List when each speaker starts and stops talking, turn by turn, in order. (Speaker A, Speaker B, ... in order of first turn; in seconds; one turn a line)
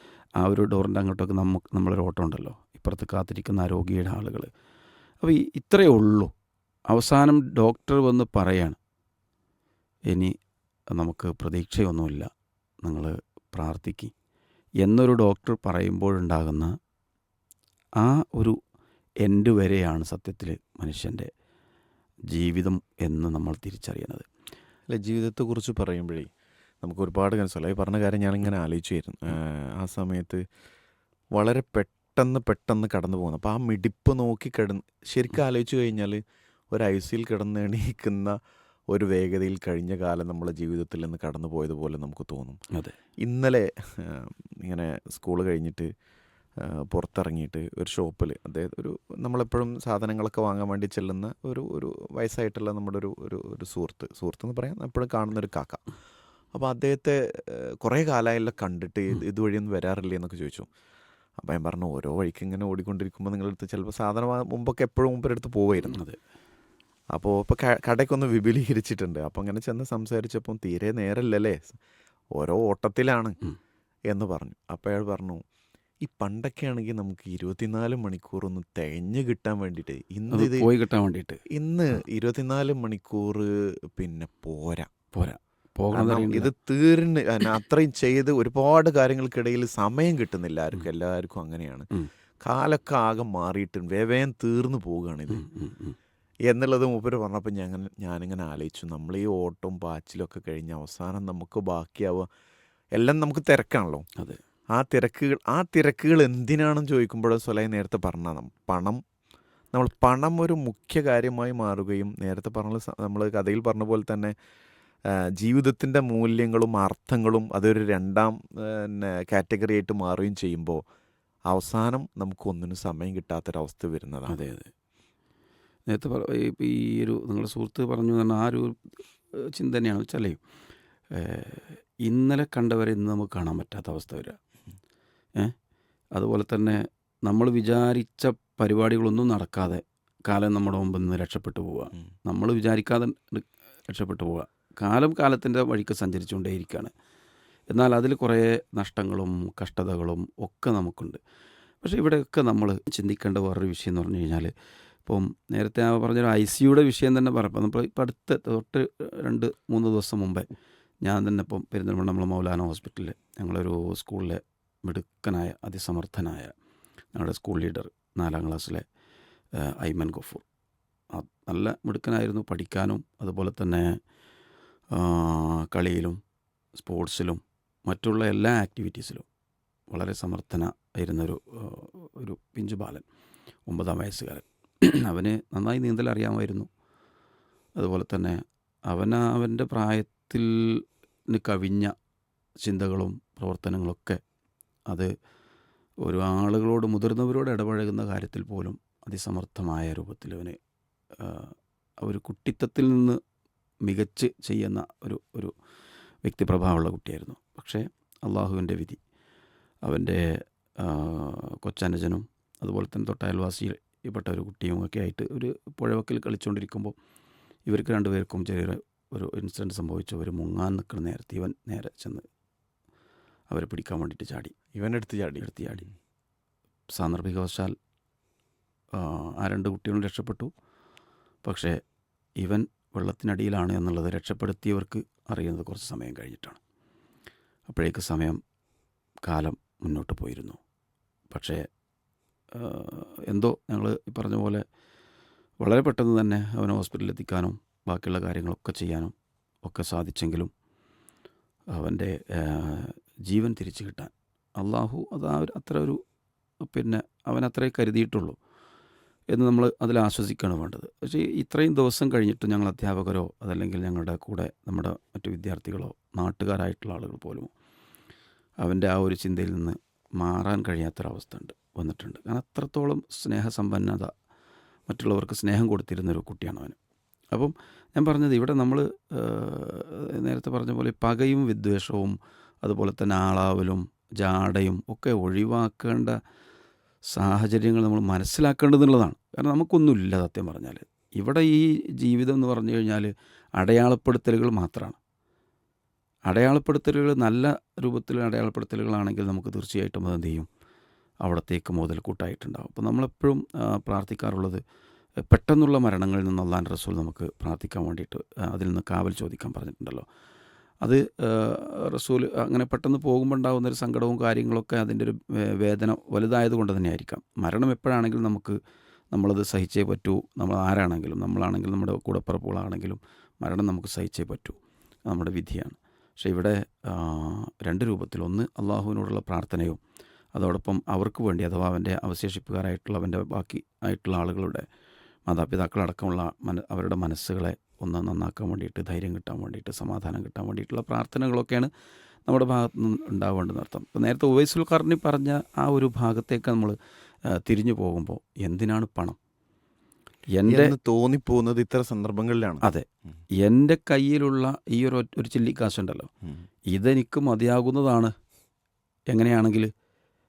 Speaker A: 0.4-4.5
Speaker A: 5.2-6.3
Speaker A: 6.9-8.8
Speaker A: 10.1-10.4
Speaker A: 10.9-12.3
Speaker A: 12.8-14.1
Speaker A: 14.8-16.7
Speaker A: 18.0-18.6
Speaker A: 19.2-21.3
Speaker A: 22.3-24.2
Speaker B: 24.9-26.3
Speaker B: 26.8-30.4
Speaker B: 31.4-36.2
Speaker B: 36.7-38.4
Speaker B: 38.9-42.6
Speaker B: 43.2-45.9
Speaker B: 46.6-55.8
Speaker B: 56.5-60.7
Speaker B: 61.4-66.0
Speaker A: 65.8-66.2
Speaker B: 67.1-71.8
Speaker B: 72.3-73.4
Speaker B: 74.1-75.4
Speaker B: 76.0-80.7
Speaker A: 80.3-81.4
Speaker B: 81.5-84.9
Speaker A: 85.1-86.5
Speaker B: 85.9-91.9
Speaker B: 92.5-95.5
Speaker A: 95.3-96.0
Speaker B: 96.5-102.3
Speaker B: 103.0-104.1
Speaker B: 104.8-109.0
Speaker B: 109.7-114.3
Speaker B: 115.1-120.8
Speaker B: 121.5-124.4
Speaker A: 124.3-124.7
Speaker A: 125.9-130.4
Speaker A: 131.1-134.4
Speaker A: 136.2-146.9
Speaker A: 147.7-151.2
Speaker A: 151.8-154.5
Speaker A: 155.1-160.5
Speaker A: 161.0-166.5
Speaker A: 167.1-168.8
Speaker A: 169.6-170.4
Speaker A: 171.1-174.0
Speaker A: 174.9-176.2
Speaker A: 176.8-179.3
Speaker A: 179.9-183.1
Speaker A: 183.7-186.7
Speaker A: 187.8-191.9
Speaker A: 192.6-194.2
Speaker A: 196.0-200.6
Speaker A: 201.2-203.2
Speaker A: 203.8-205.5
Speaker A: 206.2-209.0
Speaker A: 209.9-216.9
Speaker A: 217.7-222.3
Speaker A: 223.5-224.6
Speaker B: 224.7-225.9
Speaker A: 225.4-225.8
Speaker A: 226.9-227.8
Speaker A: 228.9-230.5
Speaker A: 231.4-231.8
Speaker A: 232.4-236.6
Speaker A: 237.7-238.4
Speaker A: 239.3-240.6
Speaker A: 241.3-241.7
Speaker A: 242.5-244.6
Speaker A: 245.6-250.5
Speaker A: 251.7-256.0
Speaker A: 256.6-258.4
Speaker A: 259.3-267.5
Speaker A: 268.6-274.1
Speaker A: 274.9-276.8
Speaker A: 277.3-286.2
Speaker A: 287.1-295.0
Speaker A: 296.3-300.5
Speaker A: 301.2-304.6
Speaker A: 305.3-310.1
Speaker A: 310.8-318.6
Speaker A: 319.1-329.8
Speaker A: 330.4-334.7
Speaker A: 335.3-341.7
Speaker A: 342.3-349.2
Speaker A: 350.3-350.7
Speaker B: 350.5-352.7
Speaker A: 353.4-356.1
Speaker A: 356.7-358.1
Speaker A: 359.1-359.7